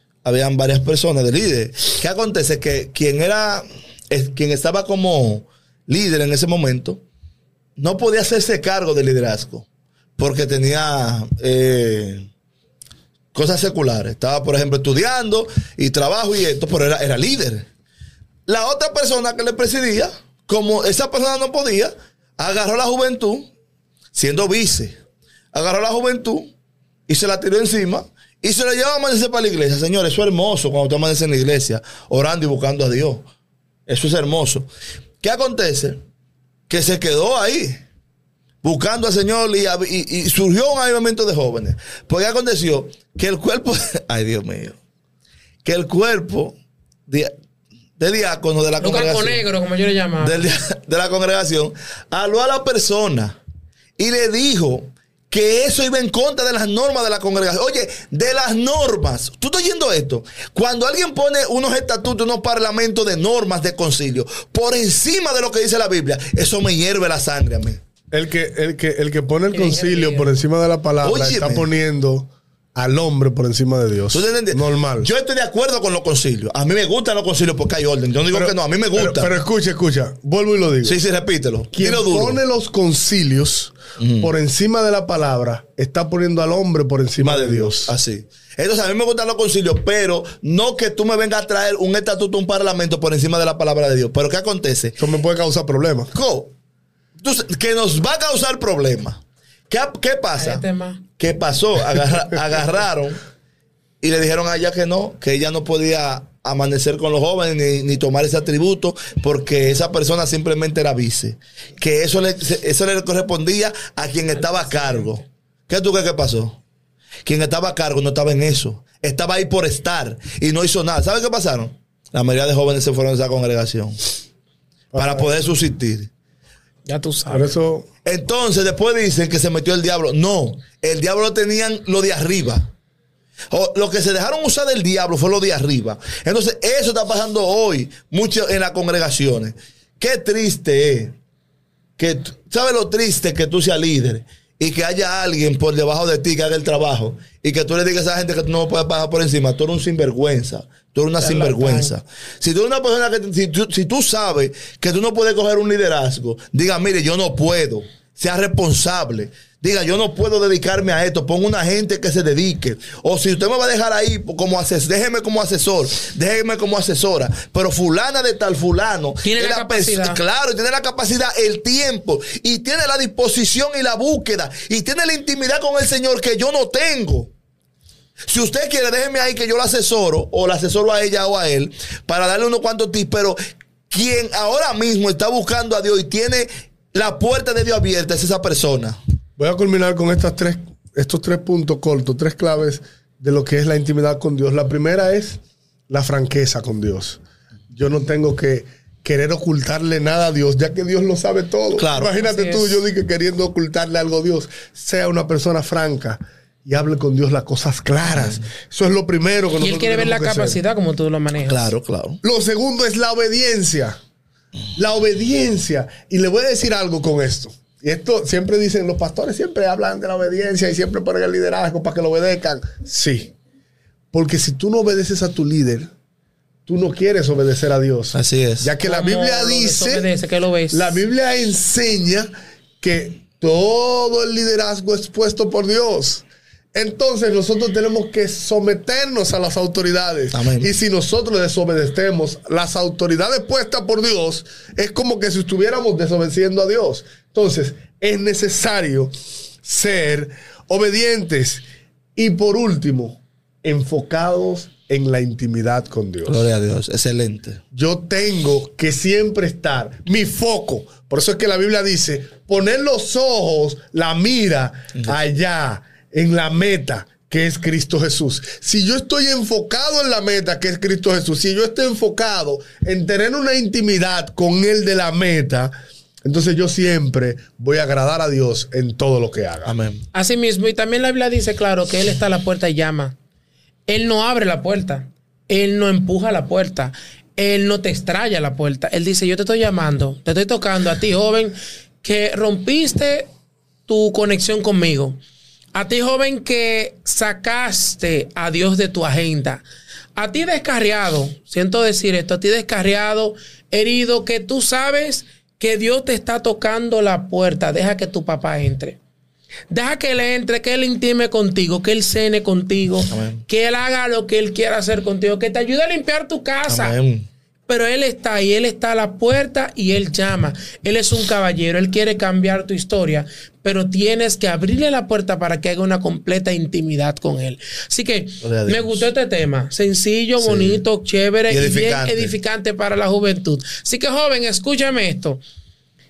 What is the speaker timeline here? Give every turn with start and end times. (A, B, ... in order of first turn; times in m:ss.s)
0:00.2-0:07.0 A
0:07.8-0:09.6 A
0:10.2-0:12.3 A
0:13.3-0:17.7 A
0:18.5-0:23.5 A
0:24.1-0:25.0 A
0:25.5-0:26.5 A
0:27.1-0:33.2 A
0:33.9-0:34.7 A
0:35.2-0:36.0 A
0:36.7-0:37.8 A
0:38.6-0:44.8 A
0:45.6-0:46.6 A
0:47.1-0:47.3 A
0:48.0-0:49.4 A
0:48.8-0:50.4 B
0:50.2-0:53.4 A
0:54.0-1:07.8 A
1:08.1-1:15.1 C
1:09.5-1:10.3 B
1:11.0-1:11.7 A
1:14.1-1:19.4 A
1:18.3-1:21.0 C
1:20.8-1:22.4 A
1:21.7-1:27.9 C
1:24.0-1:24.3 A
1:27.2-1:35.0 A
1:35.0-1:36.1 C
1:36.1-1:36.5 A
1:37.2-1:40.6 A
1:40.4-1:41.0 B
1:41.2-1:43.2 A
1:44.0-1:56.6 A
1:54.4-1:55.0 B
1:57.2-2:04.0 A
2:04.9-2:05.3 C
2:05.0-2:06.1 A
2:06.8-2:07.5 B
2:07.3-2:07.9 C
2:08.0-2:12.7 A
2:13.5-2:21.1 A
2:22.0-2:57.3 A
2:31.2-2:31.9 B
2:49.2-2:50.2 B
2:58.3-3:03.4 A
3:03.9-3:09.0 A
3:09.4-3:17.2 C
3:17.7-3:30.6 C
3:21.8-3:22.1 A
3:22.1-3:22.8 B
3:29.6-3:31.7 B
3:31.4-3:32.2 A
3:32.2-3:34.0 C
3:34.8-3:43.3 C
3:44.1-3:45.9 C
3:46.6-3:50.1 C
3:48.1-3:48.7 A
3:48.8-3:51.0 B
3:50.7-3:52.3 C
3:52.8-4:11.6 C
4:00.3-4:00.7 A
4:12.2-4:16.4 C
4:16.3-4:17.6 A
4:17.7-4:35.7 C
4:36.2-4:39.8 C
4:39.6-4:40.0 A
4:40.1-4:43.2 B
4:43.9-4:53.3 B
4:53.9-4:55.2 B
4:55.7-4:59.6 B
5:00.2-5:09.0 B
5:09.7-5:16.9 B
5:13.1-5:13.4 A
5:16.7-5:17.3 A
5:17.7-5:35.4 B
5:28.4-5:29.0 A
5:30.4-5:30.8 A
5:31.5-5:32.3 A